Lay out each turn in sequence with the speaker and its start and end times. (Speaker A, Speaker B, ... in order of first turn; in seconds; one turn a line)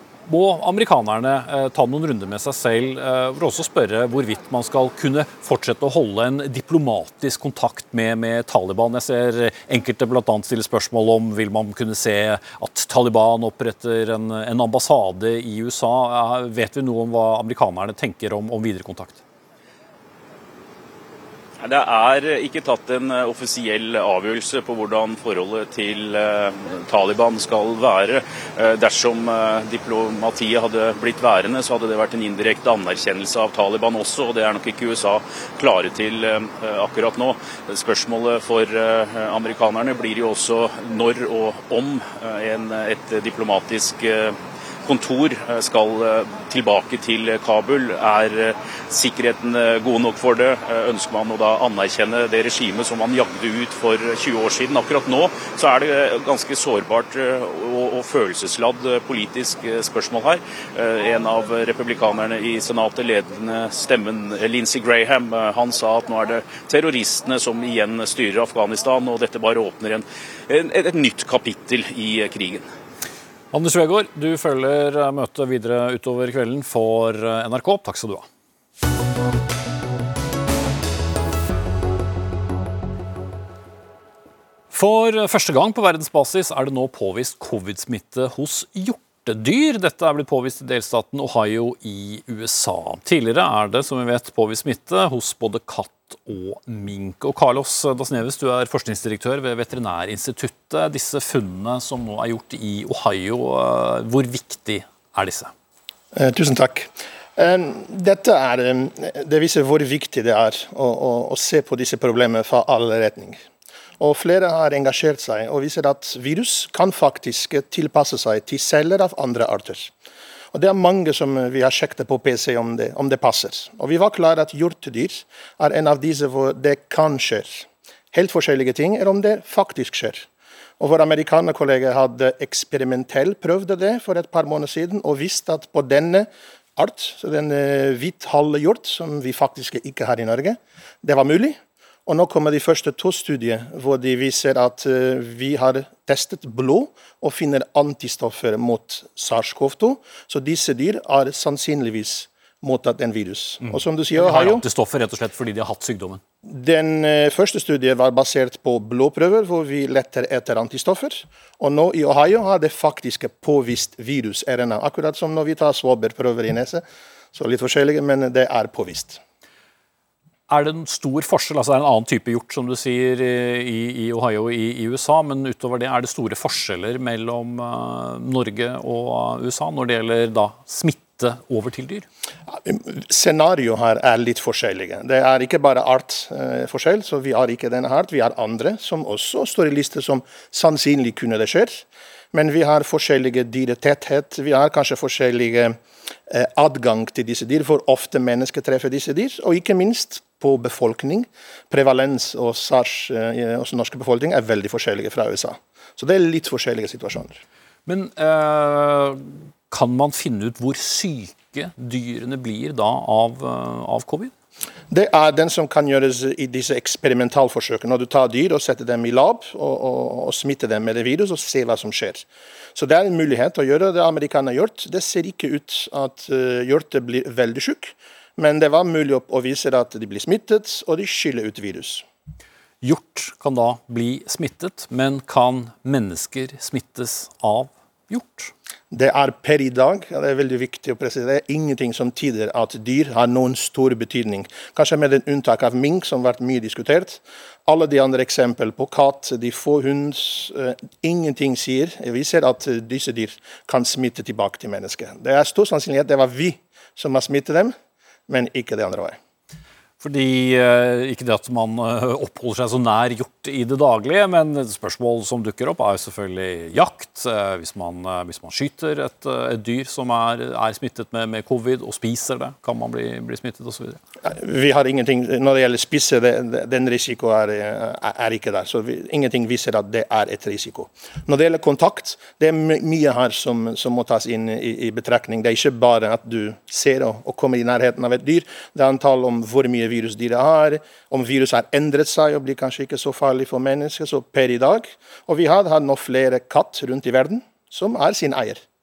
Speaker A: 0.3-19.2
Speaker B: 21.6-72.7
Speaker A: 73.5-78.2
Speaker A: 84.7-105.5
Speaker C: 106.1-113.4
Speaker C: 114.0-119.9
Speaker C: 120.5-130.3
Speaker C: 130.8-154.6
Speaker A: 153.6-156.2
Speaker C: 156.4-169.2
Speaker A: 170.5-182.1
Speaker C: 182.5-207.4
Speaker A: 207.8-214.3
Speaker C: 214.9-232.0
Speaker A: 232.8-238.5
Speaker C: 238.9-257.7
Speaker C: 258.3-259.2
Speaker A: 260.0-274.0
Speaker C: 274.2-298.6